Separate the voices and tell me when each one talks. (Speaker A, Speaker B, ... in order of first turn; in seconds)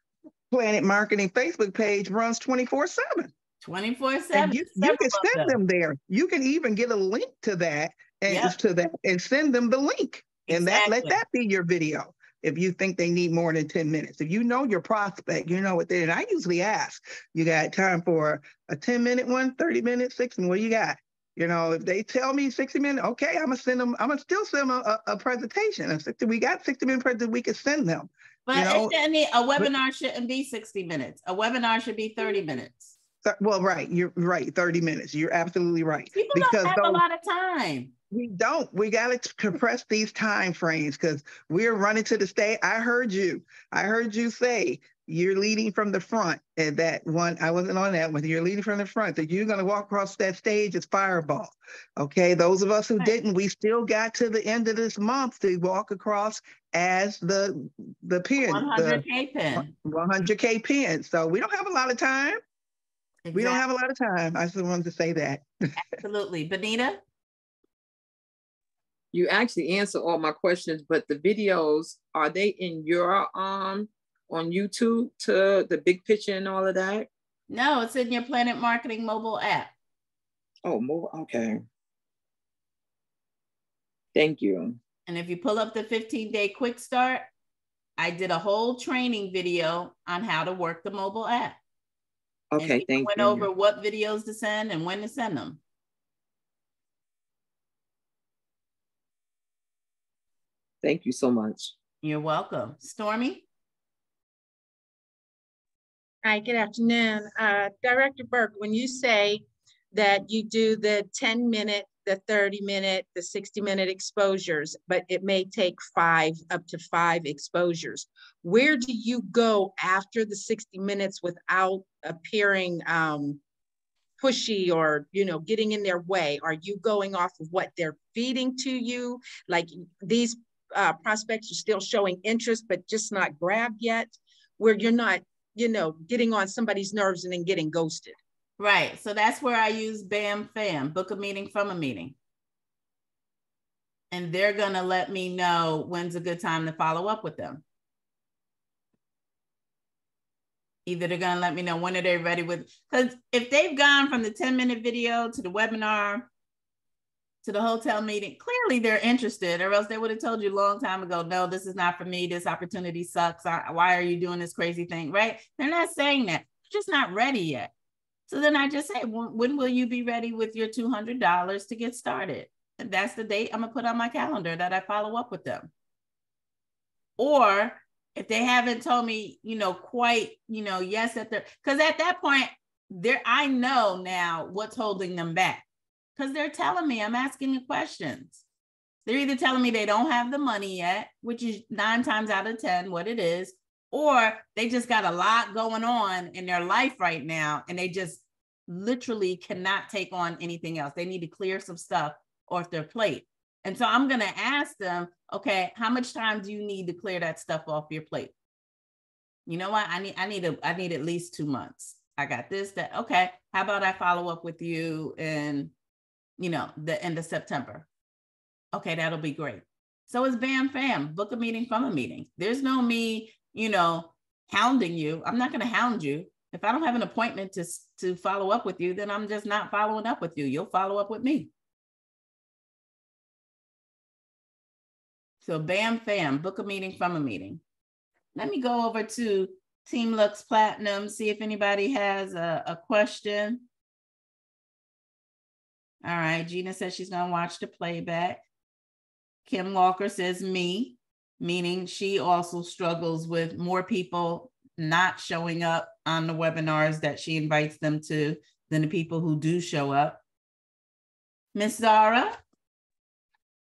Speaker A: 0.5-3.3, 4.3-28.9, 33.2-37.0, 38.1-59.0, 59.5-62.4, 63.3-65.4
Speaker B: 3.6-5.5, 8.3-8.5, 10.5-11.2, 28.5-32.9, 36.1-37.9, 58.4-59.7, 63.2-63.6, 65.8-67.0, 77.5-79.7, 85.1-87.2, 88.0-91.6, 92.6-95.6, 102.0-103.4, 138.6-142.1, 144.1-147.6, 150.8-156.3, 157.4-167.7, 168.3-175.7, 177.2-185.6, 186.2-188.4, 189.1-208.3, 209.5-215.7, 216.4-217.8, 218.7-231.5, 235.4-237.6, 238.3-243.6, 246.0-248.4, 249.4-260.2, 261.5-262.4
Speaker C: 69.1-77.1, 80.7-81.6, 84.1-84.8, 92.5-93.5, 100.8-101.7
Speaker D: 106.2-123.4, 124.2-138.2